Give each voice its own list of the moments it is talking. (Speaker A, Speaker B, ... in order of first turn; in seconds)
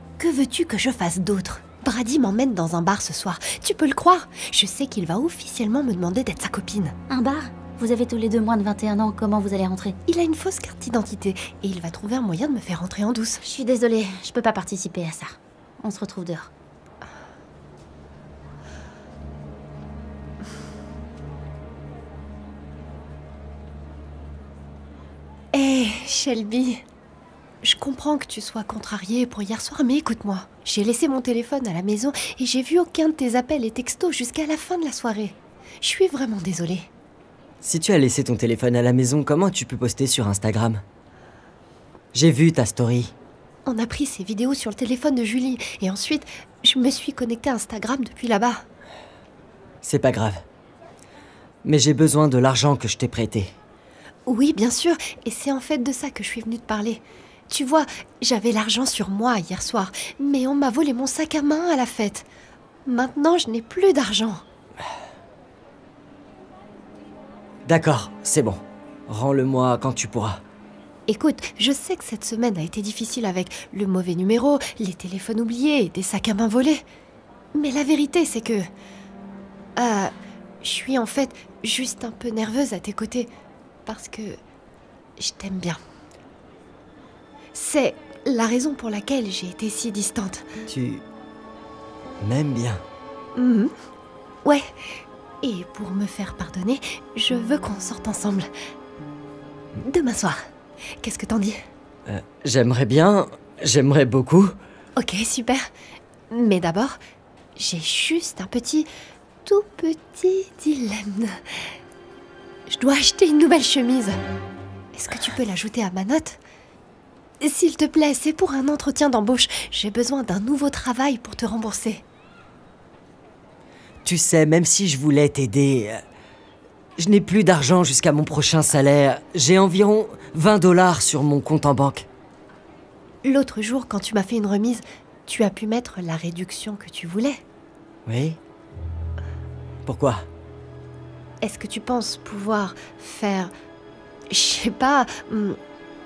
Speaker A: 0.2-6.9, 10.1-13.4, 25.5-26.8, 27.6-36.9, 43.6-48.6, 54.2-62.2, 62.9-64.4, 71.1-76.8, 77.5-78.7, 79.8-83.3, 83.8-84.4, 85.2-85.8, 87.5-90.4, 93.3-93.7, 95.4-98.5, 99.8-100.4, 101.0-101.6, 105.0-105.6, 106.3-107.0, 107.5-108.9, 109.4-111.4, 112.7-114.2, 114.9-116.4, 117.4-122.0, 133.2-137.4, 141.4-143.5, 144.3-145.6
Speaker B: 7.1-10.0, 13.4-16.5
Speaker C: 37.6-40.8, 42.1-43.1, 49.8-50.4, 51.6-53.5, 67.7-70.4, 90.7-91.0, 92.2-92.8, 102.1-104.5, 124.0-126.0, 127.0-132.1, 138.1-138.4, 139.8-140.2